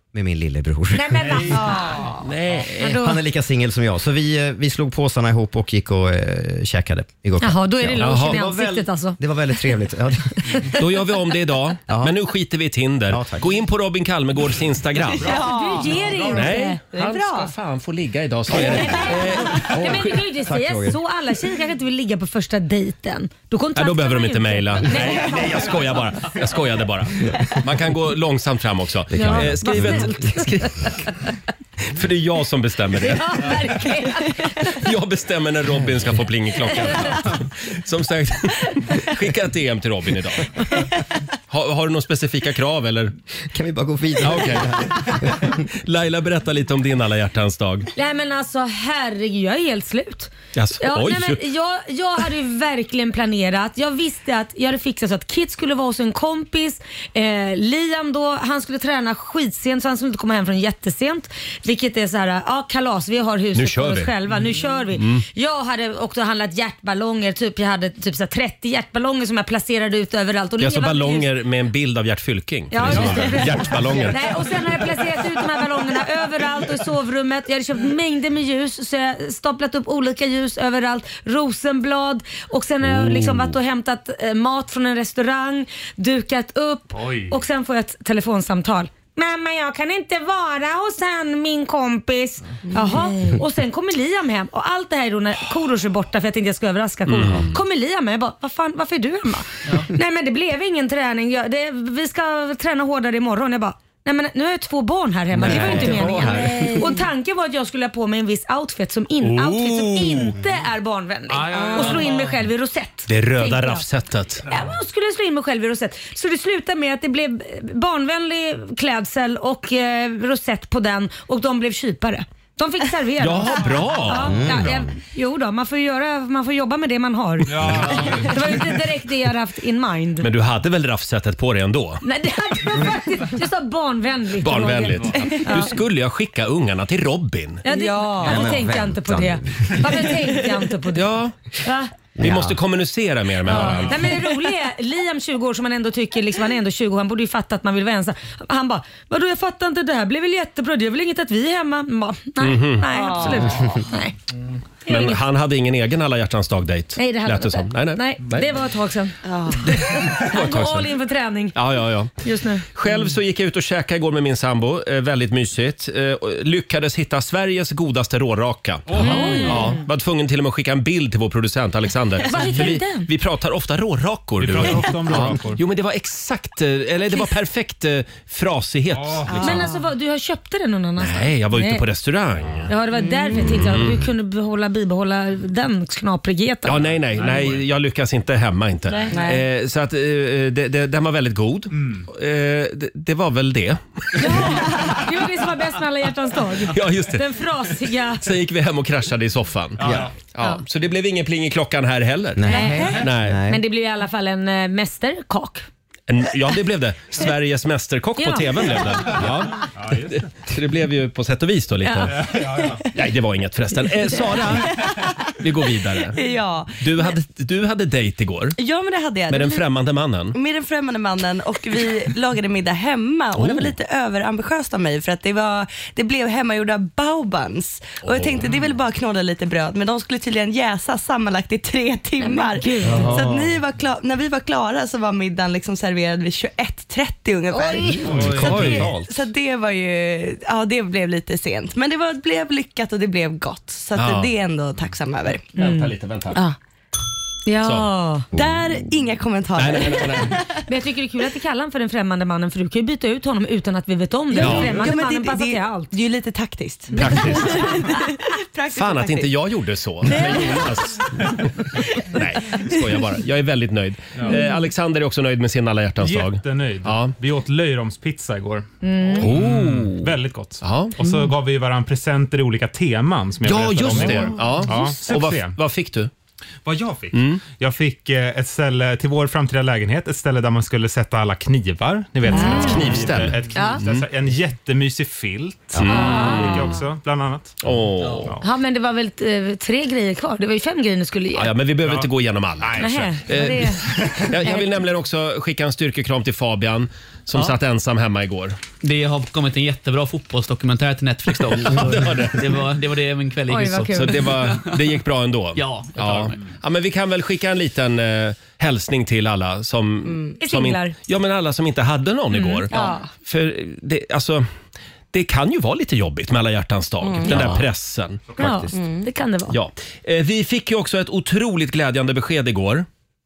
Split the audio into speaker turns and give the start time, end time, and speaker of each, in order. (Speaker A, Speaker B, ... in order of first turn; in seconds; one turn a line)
Speaker A: 0.1-1.6
Speaker B: 0.9-2.1
Speaker C: 1.2-1.6
Speaker D: 2.2-3.0
Speaker B: 2.8-3.2
Speaker A: 2.9-10.6
Speaker B: 7.4-9.2
Speaker D: 8.0-8.4
Speaker D: 10.7-15.4
Speaker A: 13.1-13.5
Speaker E: 15.2-16.3
Speaker B: 15.2-16.8
Speaker D: 16.2-19.8
Speaker E: 16.9-17.5
Speaker B: 18.5-25.7
Speaker A: 19.6-21.0
Speaker D: 23.7-30.9
Speaker A: 29.1-30.4
Speaker B: 29.1-31.1
Speaker D: 31.8-33.5
Speaker B: 33.0-34.8
Speaker D: 34.7-40.5
Speaker B: 36.8-37.2
Speaker D: 41.5-43.1
Speaker A: 43.5-45.6
Speaker D: 44.2-47.9
Speaker B: 48.0-71.3
Speaker D: 50.5-51.4
Speaker D: 63.5-64.1
Speaker D: 64.9-65.2
Speaker D: 70.6-74.2
Speaker B: 72.7-113.8
Speaker D: 82.8-83.5
Speaker C: 86.9-87.4
Speaker E: 92.7-93.1
Speaker D: 97.1-97.5
Speaker D: 105.3-106.8
Speaker F: 106.0-106.3
Speaker D: 109.2-110.3
Speaker E: 111.5-112.0
Speaker D: 111.6-112.0
Speaker D: 113.1-114.5
Speaker B: 114.4-130.3
Speaker D: 123.2-124.7
Speaker A: 124.1-124.9
Speaker C: 127.4-128.2
Speaker D: 130.2-132.0
Speaker B: 132.0-135.8
Speaker D: 134.4-137.6
Speaker E: 135.2-135.4
Speaker B: 137.6-141.1
Speaker E: 137.7-138.5
Speaker A: 138.2-139.9
Speaker D: 140.9-141.3
Speaker B: 141.6-141.9
Speaker A: 142.2-142.6
Speaker D: 142.2-144.1
Speaker B: 143.4-154.1
Speaker D: 152.4-152.9
Speaker E: 152.9-153.6
Speaker B: 154.9-155.2
Speaker D: 154.9-158.5
Speaker B: 156.9-161.6
Speaker E: 159.3-159.6
Speaker D: 159.7-160.9
Speaker D: 161.5-162.2
Speaker B: 162.2-162.7
Speaker D: 162.7-179.7
Speaker C: 168.9-169.6
Speaker B: 168.9-169.8
Speaker B: 172.2-173.1
Speaker C: 174.4-175.6
Speaker C: 178.9-179.6
Speaker E: 179.3-179.8
Speaker B: 179.4-181.8
Speaker D: 181.0-182.7
Speaker B: 182.7-186.9
Speaker E: 183.0-183.5
Speaker D: 183.4-184.1
Speaker D: 186.6-194.6
Speaker C: 187.1-187.6
Speaker B: 188.9-189.2
Speaker E: 189.1-189.4
Speaker B: 194.2-198.2
Speaker D: 196.7-197.3
Speaker D: 198.2-203.4
Speaker C: 199.8-200.1
Speaker A: 199.8-200.1
Speaker A: 202.3-203.6
Speaker B: 202.5-205.7
Speaker D: 206.1-216.2
Speaker B: 208.2-209.1
Speaker C: 209.8-210.2
Speaker B: 211.8-212.3
Speaker C: 212.2-212.8
Speaker E: 214.4-215.2
Speaker E: 216.1-217.1
Speaker D: 216.8-218.6
Speaker E: 218.6-219.6
Speaker D: 219.3-220.3
Speaker E: 220.3-245.5
Speaker D: 223.3-223.8
Speaker D: 228.1-228.5
Speaker B: 232.2-233.2
Speaker A: 232.9-233.5
Speaker B: 237.5-238.1
Speaker D: 238.1-238.9
Speaker A: 238.1-239.0
Speaker F: 238.2-238.6
Speaker D: 243.9-244.3
Speaker D: 245.6-246.4
Speaker B: 245.6-245.9
Speaker B: 247.4-248.3
Speaker D: 247.6-247.9
Speaker A: 248.3-248.8
Speaker E: 248.3-250.6
Speaker D: 249.6-250.4
Speaker B: 250.7-255.9
Speaker E: 254.3-259.3
Speaker D: 254.3-254.8
Speaker B: 256.9-257.7
Speaker D: 256.9-257.8
Speaker D: 258.7-267.1
Speaker E: 260.1-260.6
Speaker C: 266.0-275.6
Speaker B: 268.8-269.4
Speaker D: 269.2-271.0
Speaker D: 273.4-276.1
Speaker B: 274.1-274.8
Speaker C: 276.6-287.6
Speaker D: 277.1-277.4
Speaker B: 282.2-283.8
Speaker D: 282.4-284.1
Speaker D: 285.7-286.8
Speaker B: 285.8-286.8
Speaker D: 287.6-288.3
Speaker F: 288.0-288.3
Speaker C: 288.2-288.5
Speaker B: 288.4-291.5
Speaker D: 291.3-298.6
Speaker C: 291.8-293.2
Speaker B: 292.8-294.8
Speaker C: 293.8-294.2
Speaker F: 298.8-304.8
Speaker D: 301.6-302.5
Speaker B: 303.5-304.2
Speaker D: 303.9-314.5
Speaker F: 305.6-306.4
Speaker E: 310.1-310.3
Speaker B: 310.4-310.9
Speaker B: 312.3-313.1
Speaker E: 312.7-313.0
Speaker D: 315.1-318.4
Speaker E: 317.0-317.6
Speaker A: 317.3-317.6
Speaker B: 318.4-319.6
Speaker A: 318.4-318.8
Speaker E: 318.7-319.1
Speaker D: 319.5-322.9